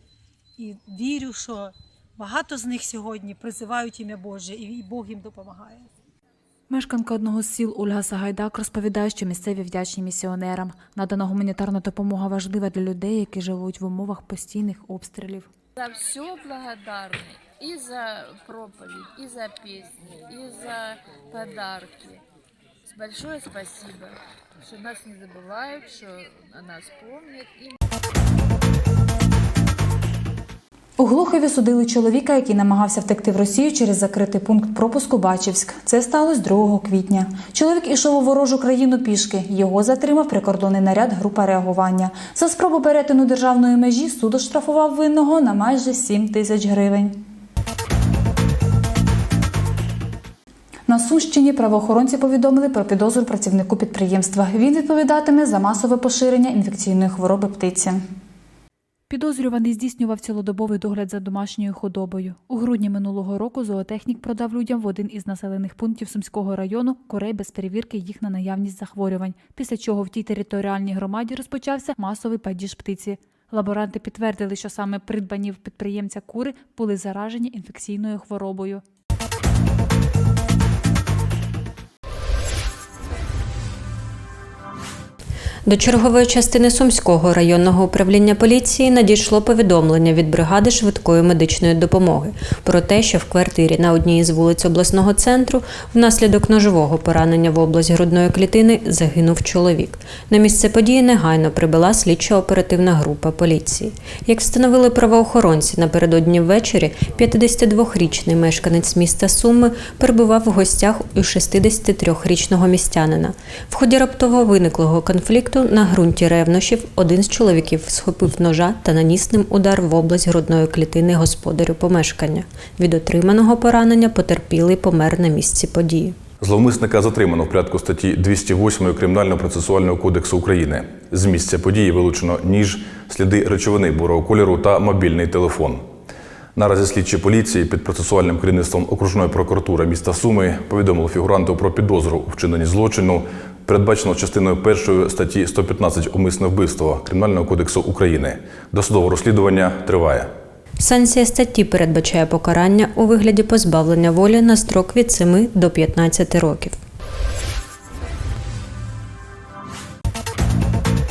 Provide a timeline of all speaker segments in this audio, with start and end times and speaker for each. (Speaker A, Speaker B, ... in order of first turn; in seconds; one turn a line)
Speaker A: 0.6-5.9
Speaker B: 6.7-15.5
Speaker C: 15.8-22.2
Speaker C: 22.9-27.7
Speaker B: 31.0-47.2
Speaker B: 50.9-58.0
Speaker B: 59.1-78.8
Speaker D: 85.7-126.2
Speaker E: 126.4-135.8
Speaker E: 136.6-150.3
Speaker D: 150.8-156.8